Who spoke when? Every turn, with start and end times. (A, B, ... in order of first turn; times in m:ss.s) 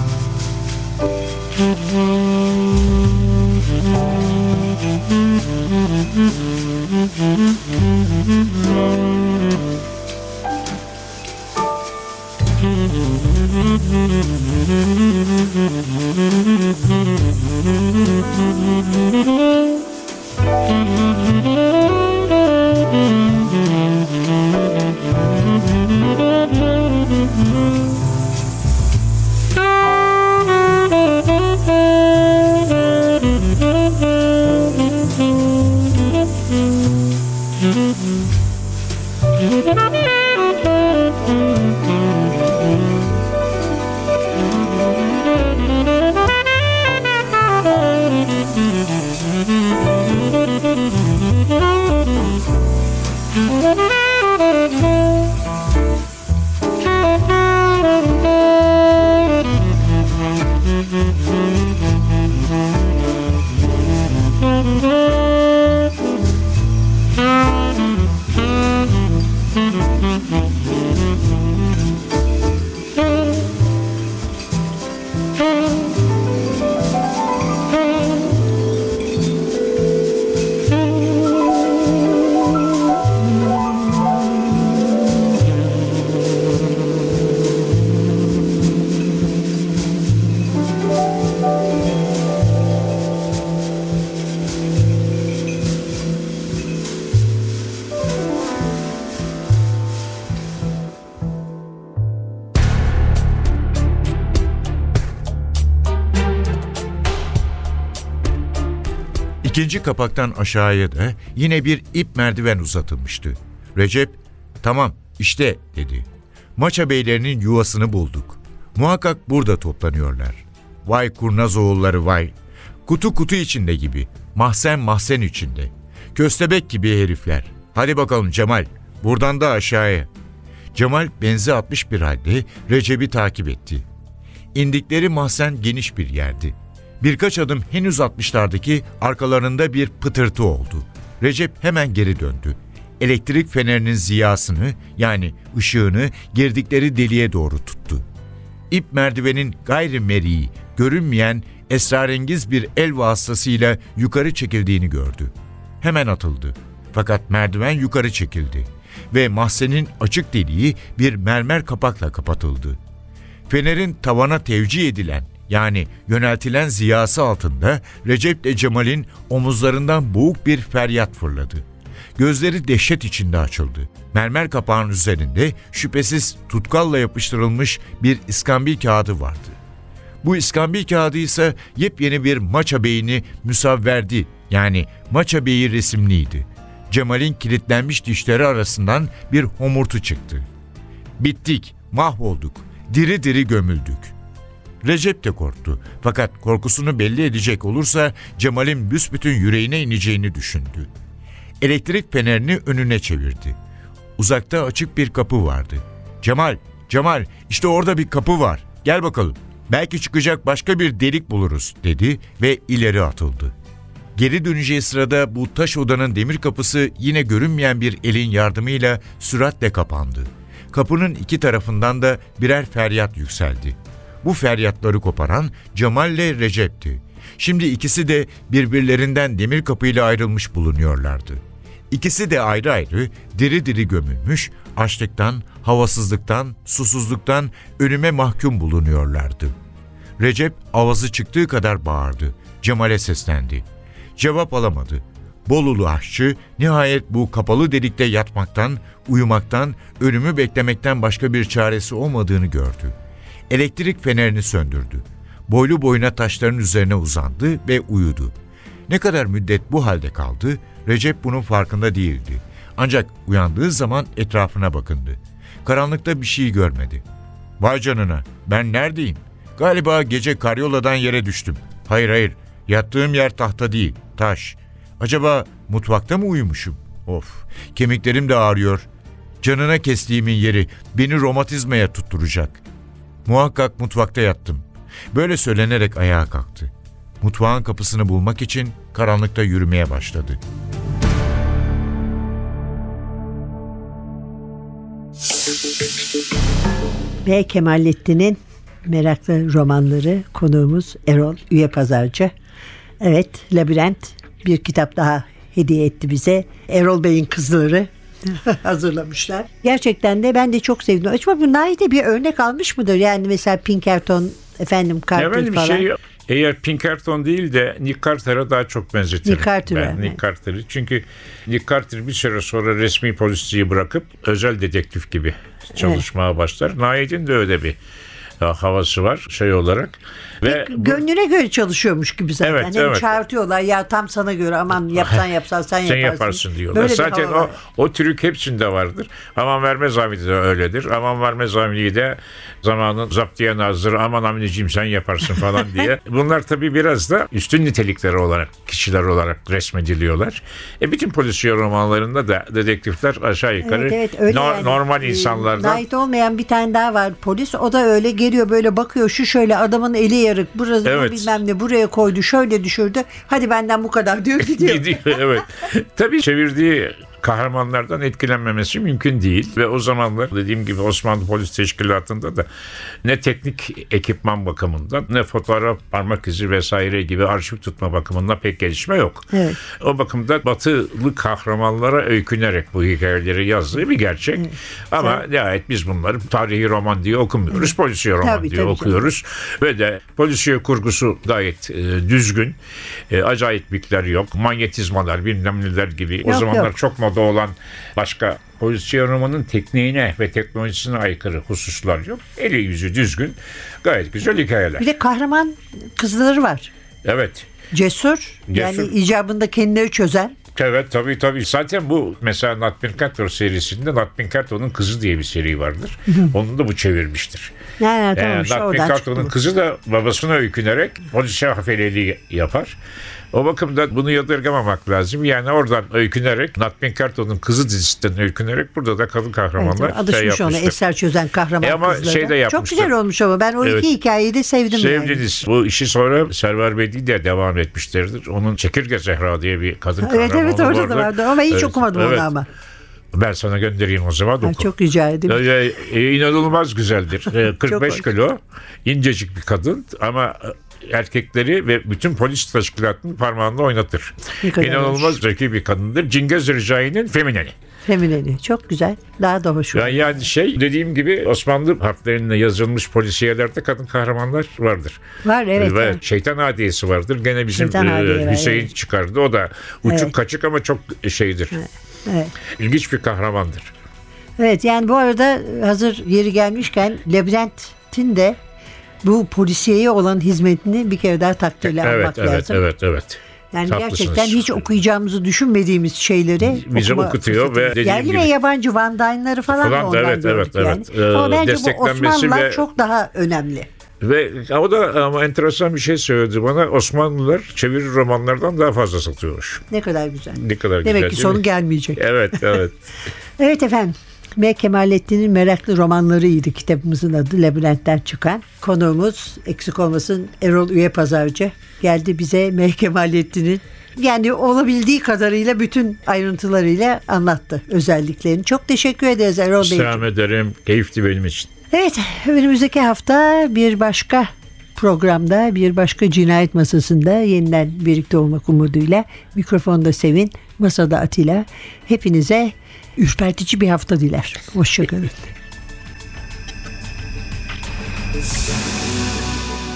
1:49.4-2:02.3 A
2:02.9-2:10.1 A
2:10.7-2:13.8 A
2:14.5-2:28.0 A
2:28.7-2:42.8 A
2:43.5-2:51.6 A
2:52.2-2:59.6 A
3:00.2-3:10.4 A
3:11.2-3:14.1 A
3:14.8-3:20.9 A
3:21.6-3:23.6 A
3:24.2-3:33.5 A
3:34.1-3:59.6 A
4:00.2-4:03.6 A
4:04.2-4:12.9 A
4:13.5-4:18.3 A
4:18.9-4:27.0 A
4:27.6-4:38.9 A
4:39.4-4:42.6 A
4:43.2-4:50.4 A
4:57.2-5:02.3 B
5:03.0-5:15.9 B
5:15.2-5:27.8 C
5:19.2-5:20.2 B
5:25.8-5:26.0 B
5:28.4-5:31.0 C
5:30.4-5:37.6 B
5:32.4-5:33.1 C
5:35.8-5:55.8 C
5:53.6-6:05.2 B
6:00.8-6:01.4 C
6:04.4-6:12.4 C
6:13.0-6:32.6 C
6:19.3-6:19.6 B
6:24.4-6:25.2 B
6:28.2-6:29.1 B
6:33.1-6:44.8 C
6:36.2-6:36.7 B
6:44.8-6:46.7 B
6:47.0-6:47.5 C
6:47.7-6:50.4 B
6:48.5-6:48.9 C
6:50.6-6:57.5 C
6:57.8-6:59.3 B
6:58.2-7:02.8 C
7:03.3-7:10.8 C
7:09.6-7:15.2 B
7:11.6-7:12.9 C
7:14.7-7:22.3 C
7:20.0-7:22.5 B
7:23.1-7:24.7 C
7:24.4-7:25.4 B
7:25.3-7:37.6 C
7:27.7-7:28.0 B
7:34.4-7:35.2 B
7:37.9-7:40.2 B
7:39.7-7:45.0 C
7:45.2-7:46.0 B
7:45.6-7:51.6 C
7:47.6-7:48.7 B
7:49.9-7:50.1 B
7:51.6-7:52.3 B
7:52.6-7:53.7 C
7:54.4-7:58.4 B
7:59.0-8:02.6 B
8:01.6-8:04.6 C
8:03.5-8:13.7 B
8:06.4-8:08.3 C
8:09.5-8:12.6 C
8:14.0-8:19.6 C
8:19.7-8:22.0 B
8:20.3-8:22.8 C
8:23.4-8:40.0 B
8:39.6-8:41.5 C
8:41.7-8:55.3 B